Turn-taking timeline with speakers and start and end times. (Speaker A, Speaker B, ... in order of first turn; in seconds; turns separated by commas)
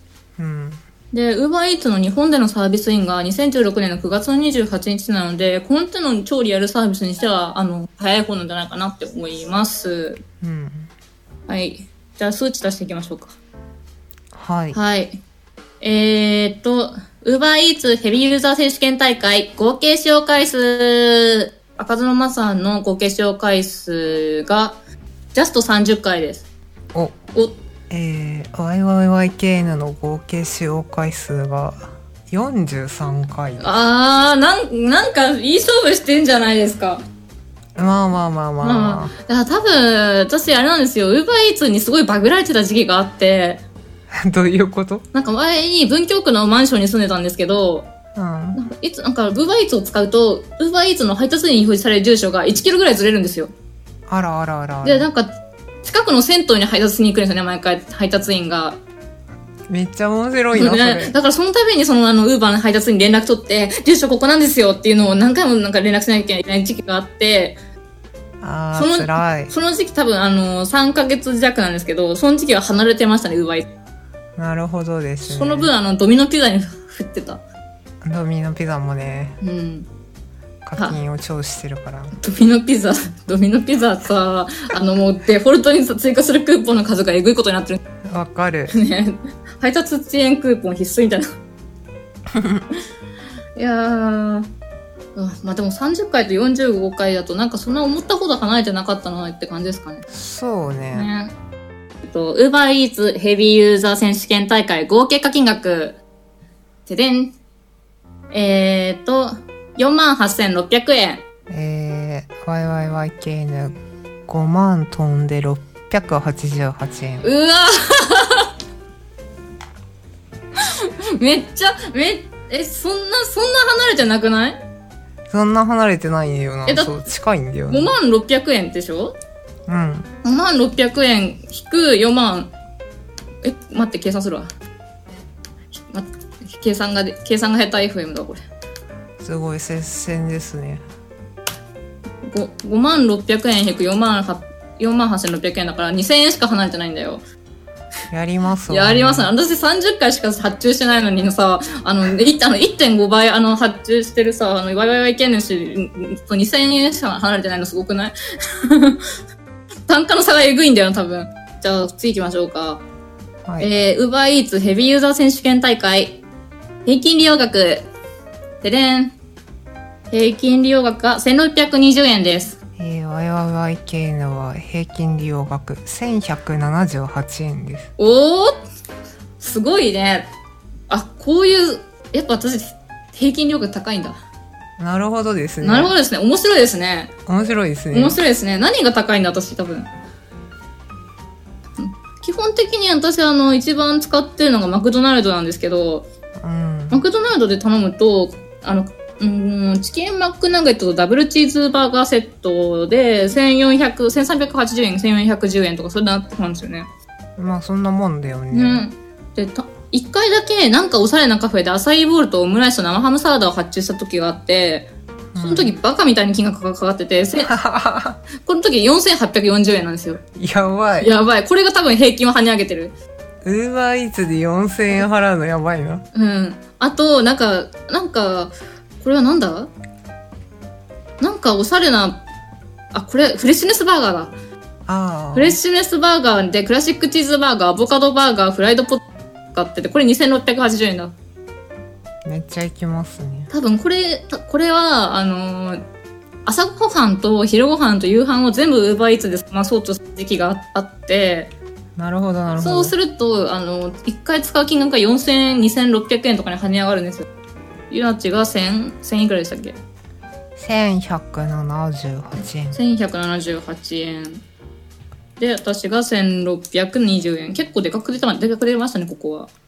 Speaker A: 0.4-0.8, Speaker B: 1.1-10.2, Speaker A: 10.4-10.9, Speaker B: 11.5-13.4, Speaker A: 14.3-14.8, Speaker B: 14.7-15.2, Speaker B: 15.8-24.8, Speaker B: 25.3-26.5, Speaker A: 27.9-33.7, Speaker B: 33.6-37.0, Speaker A: 37.8-39.1, Speaker B: 38.6-43.6, Speaker A: 44.1-45.1, Speaker B: 45.1-47.9, Speaker A: 48.1-48.6, Speaker B: 48.5-53.5, Speaker A: 54.1-55.1, Speaker B: 54.8-58.8, Speaker A: 59.7-61.1, Speaker B: 60.5-67.6, Speaker A: 68.4-69.5, Speaker B: 68.8-73.7, Speaker A: 74.4-75.7, Speaker B: 75.2-77.4, Speaker A: 78.0-79.4, Speaker B: 79.4-79.9, Speaker A: 80.6-82.2, Speaker B: 82.2-87.8, Speaker A: 88.0-88.8, Speaker B: 88.7-91.3, Speaker A: 92.3-92.6, Speaker B: 93.6-94.5, Speaker B: 95.2-100.1, Speaker A: 100.1-101.1, Speaker B: 100.9-101.3, Speaker B: 102.0-106.0, Speaker B: 106.9-107.3, Speaker B: 108.3-111.2, Speaker A: 111.5-117.3, Speaker B: 117.2-118.5, Speaker B: 120.6-124.6, Speaker A: 125.3-127.9, Speaker B: 126.7-126.9, Speaker B: 127.7-129.2, Speaker A: 129.7-130.1, Speaker B: 130.2-132.5, Speaker B: 133.4-134.5, Speaker B: 135.7-138.4, Speaker A: 139.2-140.8, Speaker B: 142.2-147.2, Speaker A: 148.1-149.3, Speaker B: 148.7-159.1, Speaker B: 159.9-162.8, Speaker B: 163.6-166.2, Speaker B: 166.9-167.9, Speaker B: 168.6-169.2, Speaker B: 170.1-172.6, Speaker A: 172.8-177.9, Speaker B: 178.0-178.6, Speaker B: 179.4-180.3, Speaker B: 180.9-184.2, Speaker A: 184.8-185.9, Speaker B: 185.6-187.1, Speaker A: 187.3-188.2, Speaker B: 187.9-189.9, Speaker B: 191.8-196.1, Speaker A: 196.4-197.0, Speaker B: 196.9-206.9, Speaker A: 207.4-208.8, Speaker B: 208.5-217.5, Speaker A: 215.3-215.7, Speaker A: 217.4-218.2, Speaker B: 218.4-220.2, Speaker A: 220.4-221.1, Speaker B: 221.0-222.9, Speaker A: 223.4-226.1, Speaker B: 226.1-229.7, Speaker B: 231.2-232.2, Speaker B: 232.9-234.3, Speaker A: 234.9-235.6, Speaker B: 235.3-241.1, Speaker A: 242.2-243.5, Speaker B: 243.5-245.8, Speaker B: 246.4-251.5, Speaker A: 252.0-252.9, Speaker B: 252.6-257.3, Speaker B: 257.9-259.8, Speaker A: 260.6-262.8, Speaker B: 262.7-264.4, Speaker B: 265.4-269.5